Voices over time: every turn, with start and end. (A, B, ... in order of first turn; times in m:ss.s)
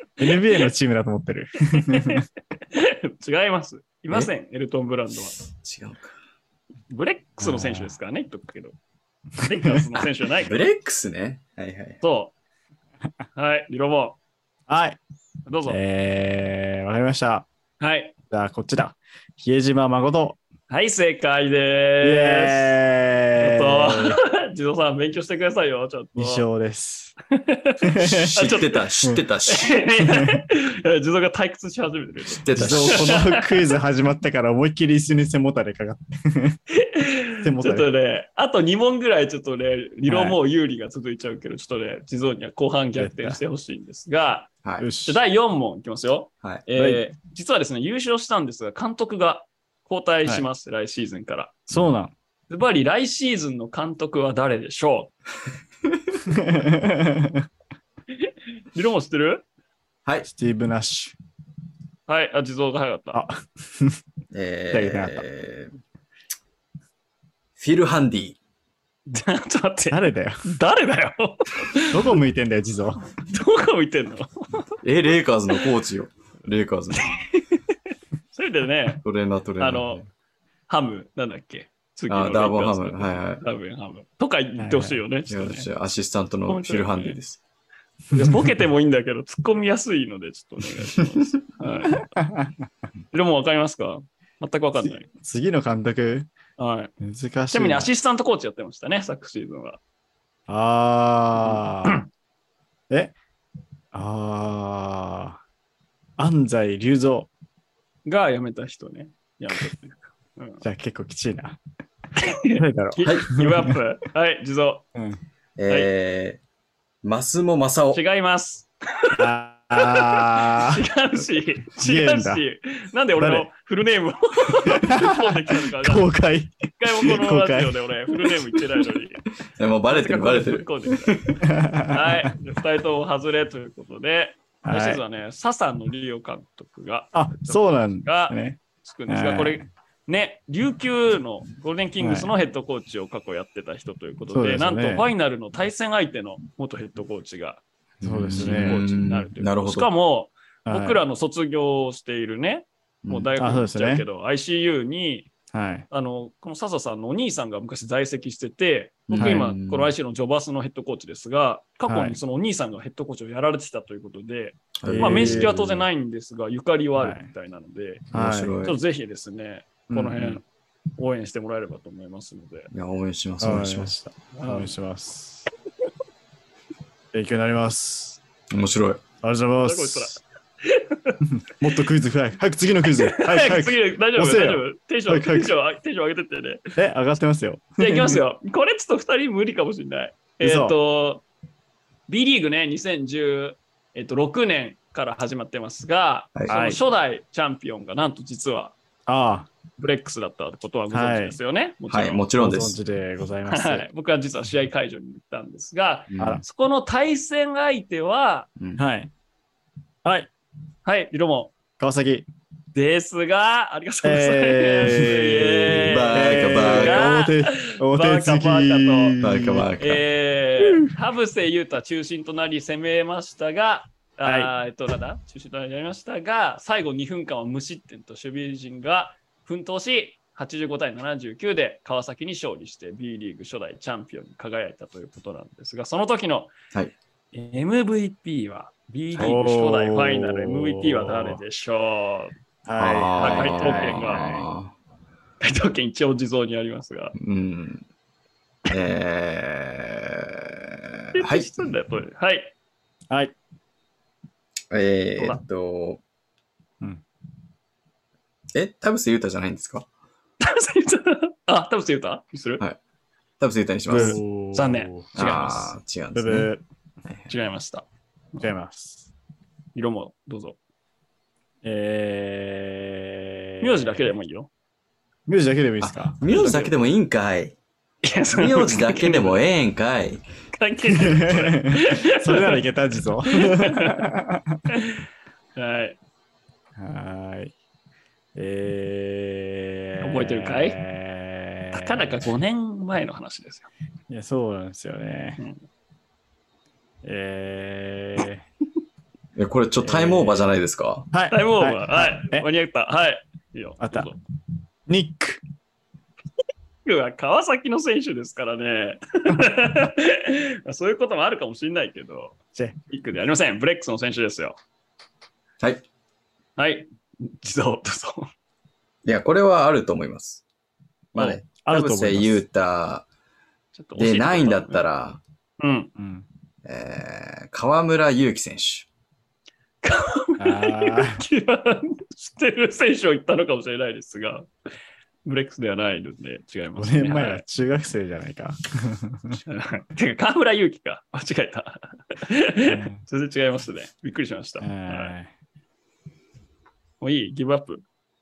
0:00.2-0:02.2 A
0:00.2-0:00.7 B
0:01.6-0:05.3 B
0:05.5-0:06.1 C
0:06.9-0:08.7 B
0:07.4-0:07.9 A
0:09.4-0:10.6 B
0:09.4-0:09.8 A
0:10.4-0:12.0 C
0:12.0-0:12.3 B
0:13.4-0:14.2 B
0:14.7-0:15.0 A
0:15.5-0:15.8 B
0:15.6-0:17.5 A
0:17.8-0:18.1 B
0:18.3-0:20.4 A
0:20.7-0:22.8 B
0:22.0-0:24.2 A
0:23.4-0:26.4 B
0:26.2-0:27.1 A
0:27.3-0:28.8 B
0:27.8-0:28.3 A
0:28.0-0:29.8 C
0:29.5-0:33.7 B
0:30.0-0:30.4 A
0:32.3-0:33.2 C
0:32.5-0:36.6 A
0:36.7-0:44.5 B
0:37.4-0:37.9 A
0:40.0-0:40.4 A
0:43.0-0:43.4 A
0:44.8-0:45.2 A
0:45.0-0:51.6 B
0:46.8-0:47.0 A
0:51.7-0:52.1 A
0:52.5-0:55.1 B
0:56.2-0:57.4 A
0:58.1-0:59.4 B
1:00.3-1:01.2 A
1:02.1-1:03.2 B
1:03.1-1:04.0 A
1:04.3-1:05.7 C
1:04.7-1:05.2 A
1:07.6-1:08.4 C
1:09.1-1:12.2 B
1:09.9-1:10.5 A
1:11.9-1:13.0 A
1:13.2-1:14.7 B
1:14.8-1:17.2 C
1:17.0-1:17.6 B
1:18.3-1:19.0 B
1:19.0-1:20.1 C
1:19.6-1:20.0 B
1:20.7-1:25.7 B
1:22.1-1:23.4 C
1:24.6-1:25.0 A
1:25.3-1:27.4 C
1:26.5-1:27.2 B
1:28.1-1:32.0 B
1:28.1-1:28.5 A
1:32.0-1:32.5 A
1:33.1-1:35.1 B
1:34.8-1:36.3 A
1:36.6-1:36.9 B
1:37.0-1:37.9 A
1:37.5-1:39.8 B
1:40.5-1:42.0 A
1:41.4-1:42.0 B
1:43.9-1:45.4 A
1:46.2-1:47.3 A
1:48.0-1:50.6 B
1:50.6-1:51.6 A
1:52.2-1:54.8 B
1:52.6-1:53.8 A
1:53.0-1:53.3 C
1:55.6-1:56.4 C
1:57.0-1:58.0 C
1:57.9-2:06.1 B
1:59.2-2:00.8 A
2:01.8-2:02.4 A
2:03.2-2:03.5 A
2:04.6-2:08.9 A
2:06.8-2:09.2 B
2:09.6-2:11.4 C
2:09.9-2:11.4 B
2:11.4-2:12.3 A
2:11.9-2:27.6 B
2:14.6-2:15.0 A
2:17.1-2:19.6 A
2:22.0-2:22.3 A
2:24.3-2:25.1 A
2:28.0-2:29.9 C
2:28.0-2:28.8 A
2:28.4-2:35.3 B
2:30.7-2:31.0 A
2:33.0-2:33.3 C
2:33.4-2:34.0 A
2:35.5-2:35.8 A
2:35.9-2:48.1 B
2:39.1-2:39.9 C
2:39.1-2:39.5 A
2:41.9-2:42.2 A
2:44.8-2:45.8 C
2:44.8-2:45.6 A
2:47.0-2:47.3 A
2:48.1-2:48.6 A
2:48.1-2:48.8 C
2:48.6-2:50.4 B
2:49.9-2:50.4 A
2:51.0-2:52.7 B
2:52.7-2:53.9 C
2:53.4-2:55.5 A
2:54.3-2:54.7 B
2:57.1-2:58.2 A
2:58.5-2:59.0 C
2:59.2-3:00.2 A
2:59.6-3:01.2 B
3:01.3-3:05.5 A
3:03.0-3:06.7 B
3:06.8-3:08.2 A
3:07.8-3:11.2 B
3:10.4-3:10.8 A
3:12.1-3:18.7 B
3:16.5-3:16.8 A
3:19.1-3:19.5 A
3:19.8-3:22.2 B
3:20.9-3:21.4 A
3:21.9-3:22.8 C
3:22.4-3:23.8 A
3:23.4-3:28.5 B
3:26.1-3:26.4 C
3:28.8-3:29.1 A
3:30.8-3:31.5 B
3:31.8-3:32.3 A
3:32.7-3:39.2 B
3:34.0-3:39.7 A
3:35.8-3:37.1 C
3:39.2-3:40.0 C
3:39.8-3:56.5 B
3:40.6-3:40.9 A
3:44.2-3:44.5 A
3:57.3-4:02.3 B
3:59.1-4:01.4 A
4:02.6-4:04.4 A
4:02.8-4:04.7 C
4:03.2-4:04.4 B
4:05.4-4:07.1 B
4:07.2-4:07.8 C
4:08.7-4:11.6 C
4:11.1-4:12.5 B
4:14.7-4:16.0 C
4:18.5-4:19.8 C
4:20.4-4:22.6 B
4:23.4-4:24.2 C
4:23.9-4:25.4 A
4:23.9-4:25.8 B
4:25.2-4:26.5 C
4:26.1-4:26.6 A
4:27.3-4:27.8 B
4:28.4-4:29.1 A
4:29.7-4:30.6 B
4:31.6-4:34.0 A
4:33.6-4:34.5 B
4:35.3-4:36.2 A
4:35.8-4:37.6 C
4:36.3-4:36.7 B
4:38.0-4:39.4 B
4:38.3-4:40.2 C
4:40.5-4:42.7 B
4:40.9-4:44.6 A
4:43.3-4:44.0 B
4:44.7-4:45.0 B
4:45.6-4:46.0 B
4:46.8-4:47.5 A
4:48.3-4:52.3 A
4:50.0-4:50.8 B
4:51.7-4:53.7 B
4:54.1-4:55.4 A
4:57.0-4:58.4 A
4:59.4-5:01.1 C
4:59.8-5:00.4 A
5:01.1-5:02.4 A
5:01.3-5:04.2 B
5:03.8-5:04.1 A
5:04.9-5:05.4 A
5:06.8-5:12.4 B
5:12.9-5:14.6 B
5:16.6-5:18.3 B
5:19.0-5:20.4 C
5:21.1-5:23.0 C
5:21.6-5:22.4 A
5:23.7-5:24.8 B
5:24.0-5:25.2 C
5:25.6-5:25.9 B
5:26.0-5:26.2 A
5:26.6-5:28.9 C
5:29.8-5:34.5 B
5:30.4-5:31.2 A
5:35.2-5:37.4 B
5:36.8-5:39.4 A
5:39.3-5:45.1 B
5:42.6-5:43.0 A
5:44.6-5:45.3 A
5:47.0-5:47.8 B